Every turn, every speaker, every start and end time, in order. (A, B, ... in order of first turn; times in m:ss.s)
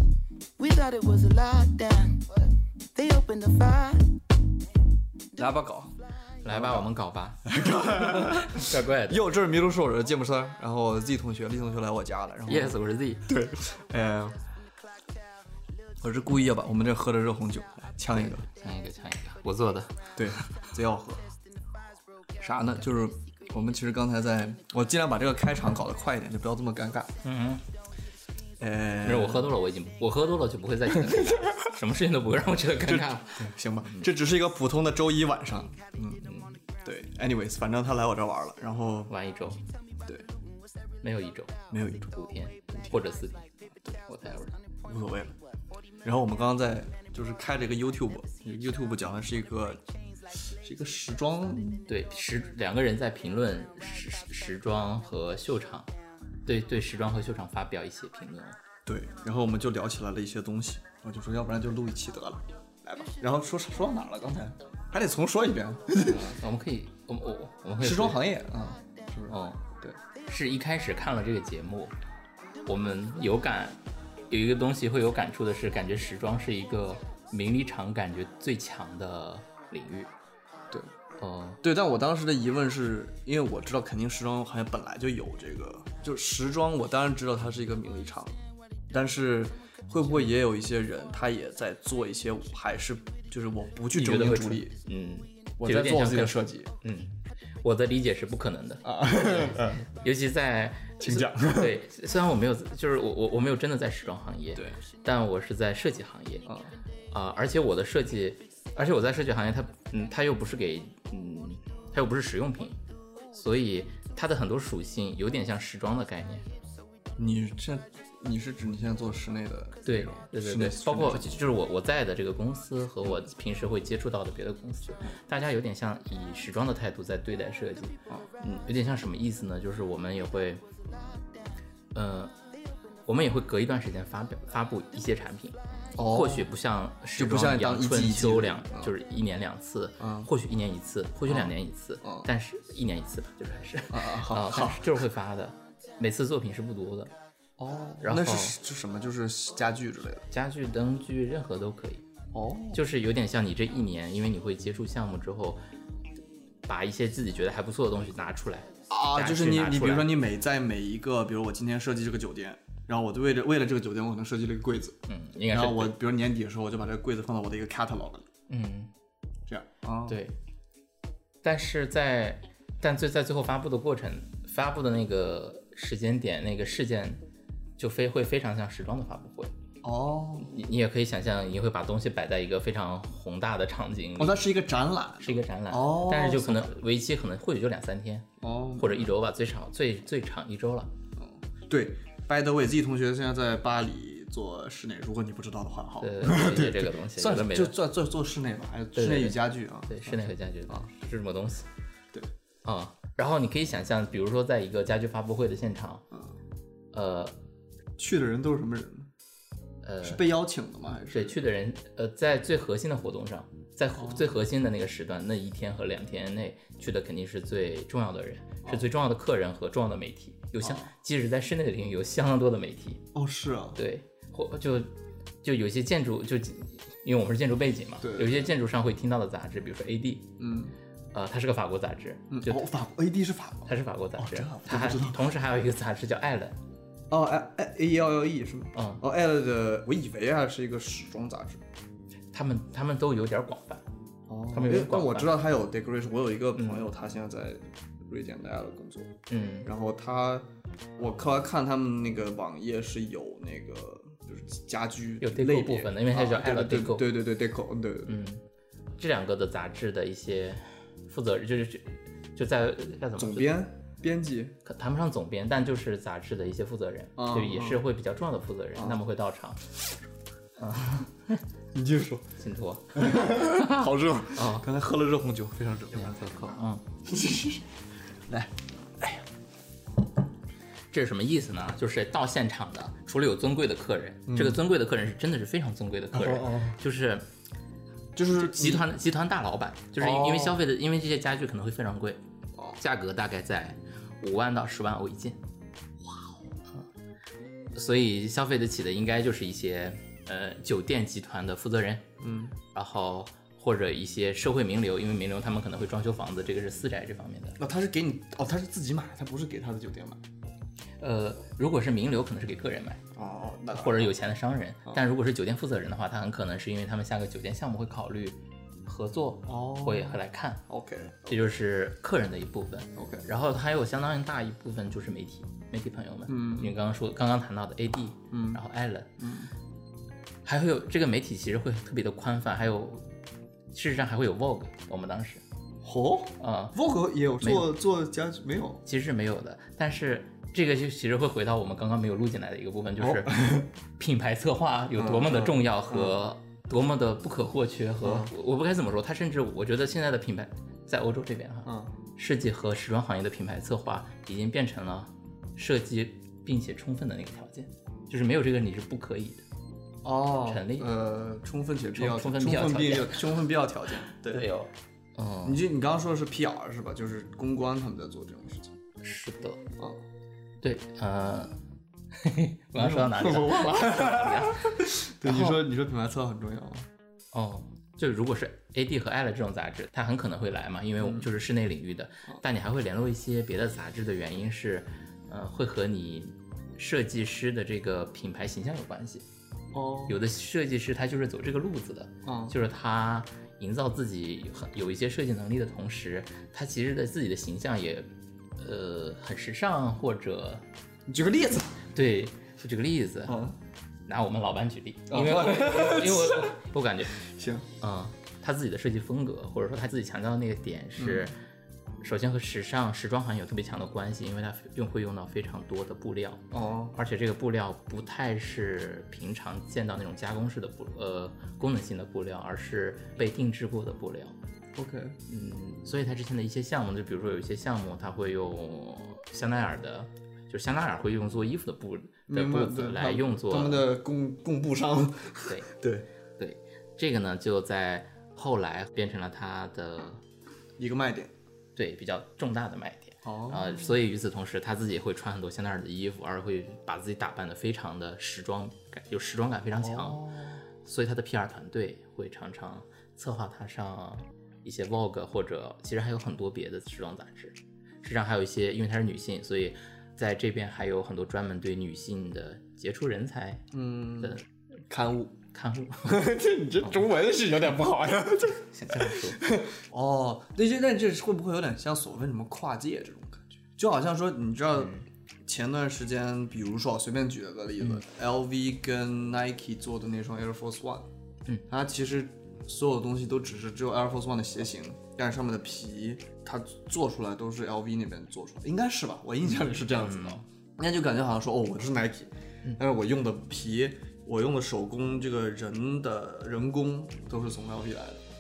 0:00.6-0:04.1 A
0:05.4-0:05.9 B
0:06.4-0:09.2 C
0:06.5-0:06.9 B
0:07.4-0:14.4 B
0:12.5-0:13.3 C
0:16.0-0:18.5 B
0:18.2-0:20.6 C
0:20.2-0:21.2 B
0:22.4-0:27.1 B
0:27.2-0:27.6 C
0:28.6-0:29.6 B
0:29.0-0:34.1 C
0:30.9-0:31.6 B
0:32.8-0:36.3 B
0:36.0-0:36.6 C
0:36.8-0:39.1 B
0:39.1-0:39.6 C
0:41.0-0:41.6 C
0:41.7-0:42.1 B
0:42.1-0:43.4 C
0:42.7-0:43.0 B
0:44.0-0:44.6 C
0:44.8-0:45.3 B
0:46.0-0:49.8 B
0:50.3-0:51.8 B
0:51.9-0:55.9 C
0:56.4-0:58.6 C
0:58.8-1:06.4 B
1:06.0-1:08.2 C
1:07.8-1:10.0 B
1:09.3-1:09.6 C
1:10.3-1:11.9 C
1:12.7-1:13.8 C
1:14.3-1:20.1 C
1:21.2-1:21.6 C
1:21.6-1:28.4 B
1:28.9-1:34.8 B
1:33.9-1:46.5 C
1:35.6-1:36.7 B
1:38.8-1:39.8 B
1:41.0-1:41.8 B
1:46.5-1:46.7 B
1:47.1-1:52.8 C
1:53.3-1:56.4 C
1:57.2-2:01.4 B
1:59.8-2:10.6 C
2:11.9-2:12.3 C
2:13.1-2:27.1 C
2:15.9-2:16.5 B
2:17.2-2:18.9 B
2:20.0-2:20.3 B
2:21.3-2:22.3 B
2:23.9-2:25.0 B
2:27.6-2:30.2 B
2:28.0-2:28.6 C
2:30.3-2:32.0 C
2:32.3-2:32.8 B
2:32.7-2:35.6 C
2:36.7-2:40.1 C
2:38.9-2:45.0 B
2:45.1-2:46.0 C
2:45.5-2:48.3 B
2:48.5-2:48.9 C
2:49.5-2:50.2 B
2:50.1-2:50.4 C
2:51.4-2:57.2 C
2:57.8-2:59.5 C
2:59.8-3:00.5 B
3:00.4-3:04.4 C
3:04.2-3:06.7 B
3:05.2-3:10.9 C
3:08.4-3:09.1 B
3:11.2-3:20.9 B
3:16.0-3:17.8 C
3:18.9-3:21.7 C
3:22.6-3:26.0 C
3:26.1-3:26.4 B
3:26.9-3:27.3 C
3:28.0-3:29.1 B
3:29.8-3:30.2 C
3:30.0-3:31.4 B
3:31.1-3:43.0 C
3:34.0-3:34.3 B
3:40.6-3:40.9 B
3:43.1-3:43.8 B
3:43.8-3:44.9 C
3:45.4-3:50.4 C
3:48.0-3:48.5 B
3:50.4-3:50.8 B
3:51.1-3:52.7 C
3:52.3-3:55.2 B
3:53.7-3:56.5 C
3:57.1-4:01.6 B
3:58.7-3:59.0 C
4:02.3-4:03.8 C
4:04.3-4:10.4 B
4:04.5-4:05.3 C
4:06.6-4:06.8 C
4:09.3-4:09.7 C
4:11.0-4:18.2 B
4:15.2-4:17.1 C
4:18.1-4:18.4 C
4:19.0-4:23.6 C
4:23.2-4:24.6 B
4:24.6-4:29.7 C
4:27.2-4:27.8 B
4:30.6-4:31.4 C
4:31.7-4:32.3 B
4:32.4-4:34.7 C
4:32.9-4:37.7 B
4:35.9-4:36.8 C
4:38.3-4:39.2 B
4:40.9-4:47.2 C
4:44.3-4:44.6 B
4:46.1-4:46.8 B
4:48.1-4:48.9 B
4:48.3-4:52.2 C
4:50.0-4:50.6 B
4:52.8-4:55.4 C
4:56.0-4:56.3 B
4:57.8-5:02.0 C
5:02.2-5:02.6 B
5:02.7-5:07.6 C
5:07.6-5:10.2 B
5:11.0-5:13.0 C
5:13.2-5:14.1 B
5:13.7-5:20.6 C
5:19.4-5:21.5 B
5:21.3-5:29.1 C
5:23.0-5:23.3 B
5:26.3-5:26.8 B
5:28.3-5:28.6 B
5:29.2-5:29.5 B
5:30.4-5:33.1 C
5:33.7-5:35.4 C
5:35.8-5:38.8 B
5:36.4-5:36.8 C
5:37.4-5:37.7 C
5:38.8-5:59.4 C
5:43.0-5:43.7 B
5:44.9-5:46.2 B
5:48.0-5:48.3 B
5:51.6-5:52.0 B
6:00.0-6:04.5 B
6:00.4-6:00.9 C
6:01.9-6:03.4 C
6:04.2-6:05.6 C
6:05.4-6:08.8 B
6:09.0-6:09.6 C
6:09.8-6:10.0 B
6:10.6-6:11.6 C
6:12.1-6:15.6 C
6:12.8-6:16.9 B
6:17.3-6:29.2 C
6:21.0-6:21.3 B
6:29.7-6:30.2 B
6:30.1-6:38.1 C
6:32.2-6:32.6 B
6:38.6-6:40.6 C
6:41.1-6:41.8 B
6:41.9-6:43.4 C
6:43.3-6:43.6 B
6:44.1-6:47.2 C
6:45.1-6:46.6 B
6:47.2-6:47.6 B
6:47.8-6:51.4 C
6:51.0-6:51.3 B
6:52.0-7:04.4 C
6:56.5-6:57.0 B
7:04.8-7:05.2 B
7:05.3-7:13.9 C
7:12.3-7:16.1 B
7:16.4-7:20.2 C
7:20.8-7:21.3 B
7:21.8-7:43.6 C
7:23.2-7:24.0 B
7:29.8-7:30.6 B
7:43.7-7:45.4 B
7:44.2-7:44.4 C
7:45.5-7:46.2 C
7:46.1-8:01.1 B
7:48.6-7:49.4 C
7:54.8-7:55.0 C
8:01.7-8:18.2 B
8:09.9-8:10.4 C